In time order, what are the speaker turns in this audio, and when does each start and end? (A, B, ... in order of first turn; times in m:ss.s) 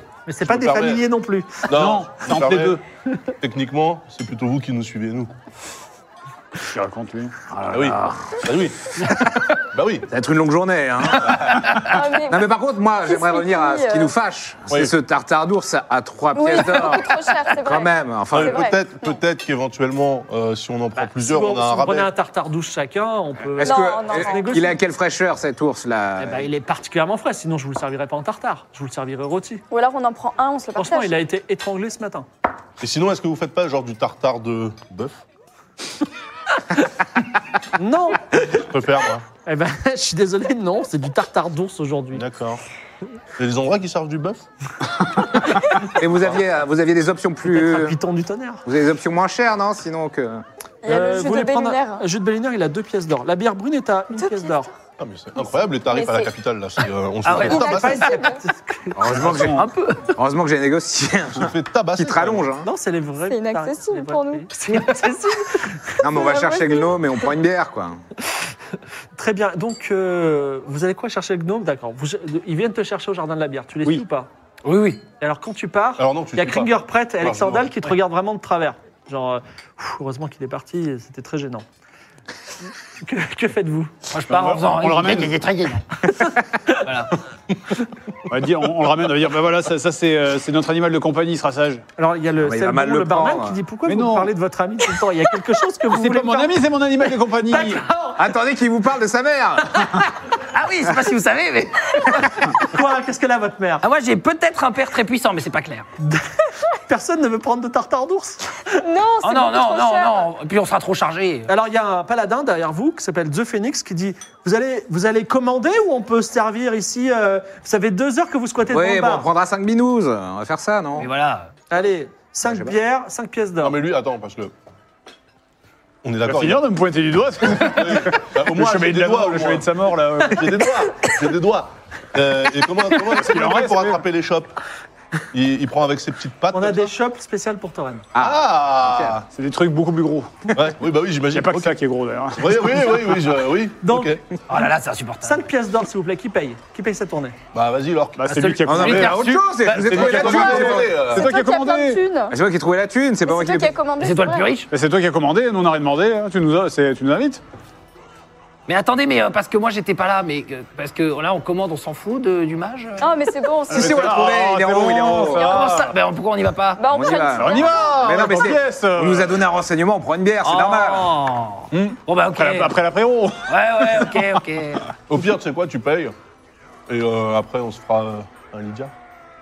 0:00.2-0:01.7 A
0:00.4-0:01.0 B
0:01.7-0:02.8 B
0:01.7-0:02.8 C
0:03.4-0:05.4 B
0:06.7-0:07.5 C
0:07.5-0:08.5 D
0:07.7-0:08.9 B
0:09.7-0:10.1 B
0:10.1-0:18.7 D
0:11.9-0:14.1 E
0:16.3-0:19.2 E
0:17.1-0:17.5 F
0:18.3-0:22.1 B
0:21.0-0:24.8 A
0:23.6-0:26.5 D
0:23.6-0:24.5 E
0:26.2-0:26.5 F
0:26.3-0:29.6 A
0:29.7-0:31.1 E
0:30.7-0:32.3 A
0:32.8-0:35.2 B
0:37.7-0:38.7 A
0:38.5-0:39.2 B
0:39.3-0:42.2 A
0:42.1-0:42.6 B
0:43.4-0:44.4 B
0:45.9-0:48.0 D
0:47.5-0:48.7 A
0:48.6-0:50.4 D
0:50.8-0:52.0 E
0:50.8-0:54.7 A
0:54.1-0:54.7 E
0:55.0-0:58.1 B
0:55.4-0:56.3 E
0:57.2-0:57.7 F
0:57.3-0:58.4 E
0:57.4-0:59.5 A
0:59.0-1:02.7 D
0:59.2-0:59.6 C
0:59.5-1:00.1 F
1:01.3-1:02.5 B
1:02.6-1:06.0 A
1:03.3-1:04.5 E
1:04.7-1:05.1 F
1:06.0-1:08.0 D
1:06.1-1:07.2 E
1:09.2-1:14.3 A
1:14.6-1:15.0 F
1:15.2-1:21.6 A
1:16.0-1:17.9 B
1:23.0-1:23.9 A
1:24.1-1:25.4 F
1:24.3-1:25.8 C
1:26.0-1:26.9 A
1:26.8-1:27.1 F
1:28.3-1:31.8 C
1:32.0-1:36.6 A
1:32.4-1:33.6 D
1:33.8-1:34.3 C
1:35.9-1:37.8 C
1:37.5-1:38.2 A
1:38.2-1:40.0 D
1:39.9-1:42.6 F
1:42.5-1:43.8 A
1:43.8-1:45.9 F
1:46.0-1:46.3 A
1:46.9-1:48.6 A
1:48.7-1:50.3 E
1:49.2-1:51.5 F
1:51.5-1:59.3 A
1:58.7-2:01.1 D
2:01.0-2:01.5 F
2:01.7-2:03.8 A
2:02.4-2:02.8 D
2:03.6-2:04.5 B
2:06.0-2:06.7 B
2:06.3-2:10.7 C
2:07.5-2:14.5 B
2:13.1-2:14.0 C
2:15.3-2:16.9 B
2:16.5-2:18.1 A
2:18.2-2:19.2 D
2:18.2-2:19.2 B
2:19.3-2:20.5 C
2:20.5-2:21.8 B
2:21.3-2:23.2 C
2:22.4-2:24.2 B
2:23.8-2:24.7 A
2:24.5-2:25.5 F
2:25.2-2:27.4 A
2:27.5-2:28.5 B
2:28.2-2:32.0 C
2:28.3-2:28.6 A
2:28.6-2:31.0 D
2:28.7-2:30.8 F
2:29.9-2:31.2 B
2:30.4-2:32.3 E
2:32.3-2:33.7 D
2:33.2-2:34.6 E
2:34.0-2:34.7 F
2:34.7-2:37.4 C
2:38.7-2:43.1 F
2:43.0-2:44.1 E
2:43.7-2:45.9 C
2:43.7-2:45.6 D
2:45.2-2:46.8 F
2:46.8-2:48.2 E
2:46.9-2:51.2 D
2:47.4-2:49.5 C
2:50.4-2:52.7 F
2:51.7-2:54.3 C
2:53.5-2:54.9 F
2:55.1-2:56.1 B
2:56.9-2:58.9 B